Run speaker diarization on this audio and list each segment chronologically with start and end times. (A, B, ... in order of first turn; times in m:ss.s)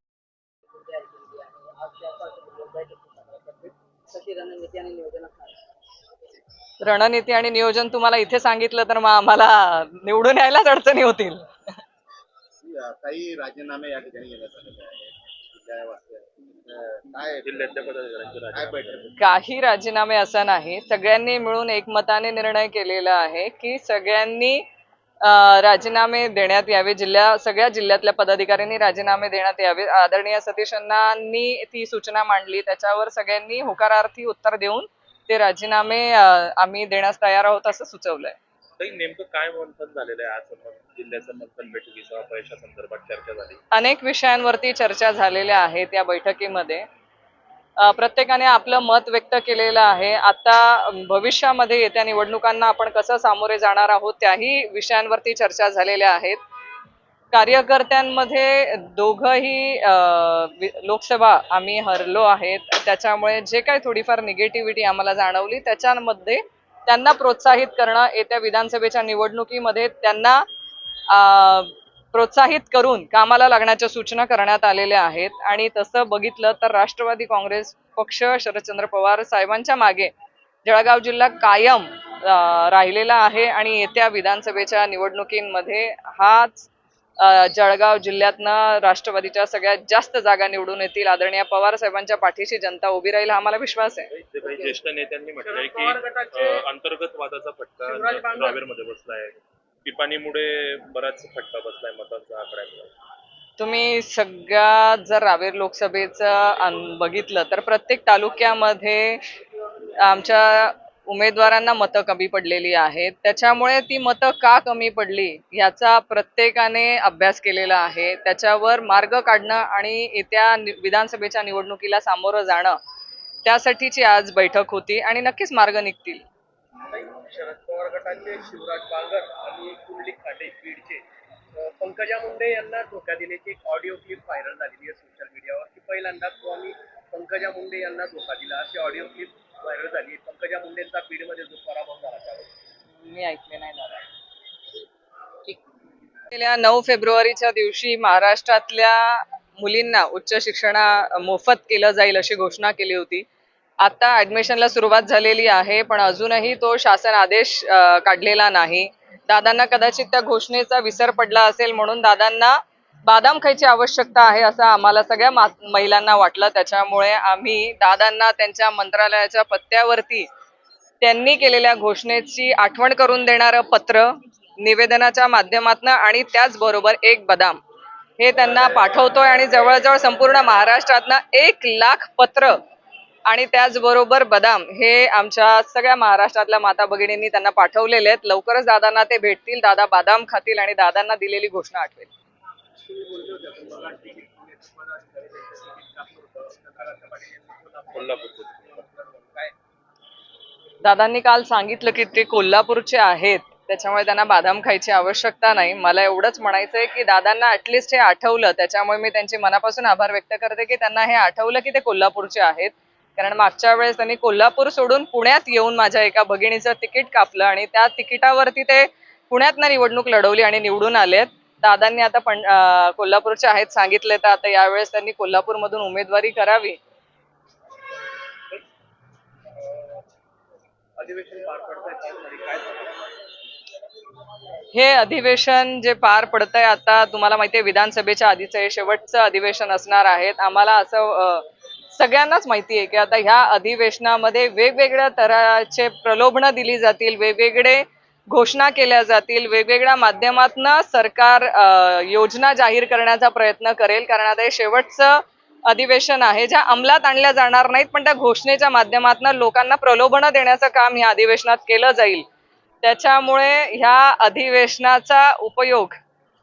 0:00.8-0:05.6 A
0:06.8-0:11.4 B
0:12.6-0:17.8 C
0:17.4-0:19.2 D
0:18.5-0:19.1 C
0:19.2-0:24.6 B
0:25.2-0:38.4 B
0:38.8-0:43.6 D
0:43.7-0:46.8 B
0:47.8-0:56.4 B
0:57.3-1:10.4 B
1:11.1-1:20.1 B
1:20.6-1:34.1 B
1:34.1-1:42.9 D
1:35.4-1:36.6 E
1:37.9-1:38.6 E
1:43.6-1:49.2 B
1:50.0-2:02.8 B
2:03.4-2:06.2 B
2:06.9-2:11.0 E
2:11.5-2:22.5 E
2:23.0-2:24.0 B
2:26.3-2:33.3 B
2:33.8-2:50.3 B
2:51.0-2:57.6 B
2:58.2-3:02.6 B
3:03.3-3:12.1 B
3:12.8-3:19.5 E
3:17.9-3:18.6 D
3:20.8-3:46.8 B
3:51.0-3:53.1 E
3:54.7-4:22.2 B
4:22.8-4:26.0 B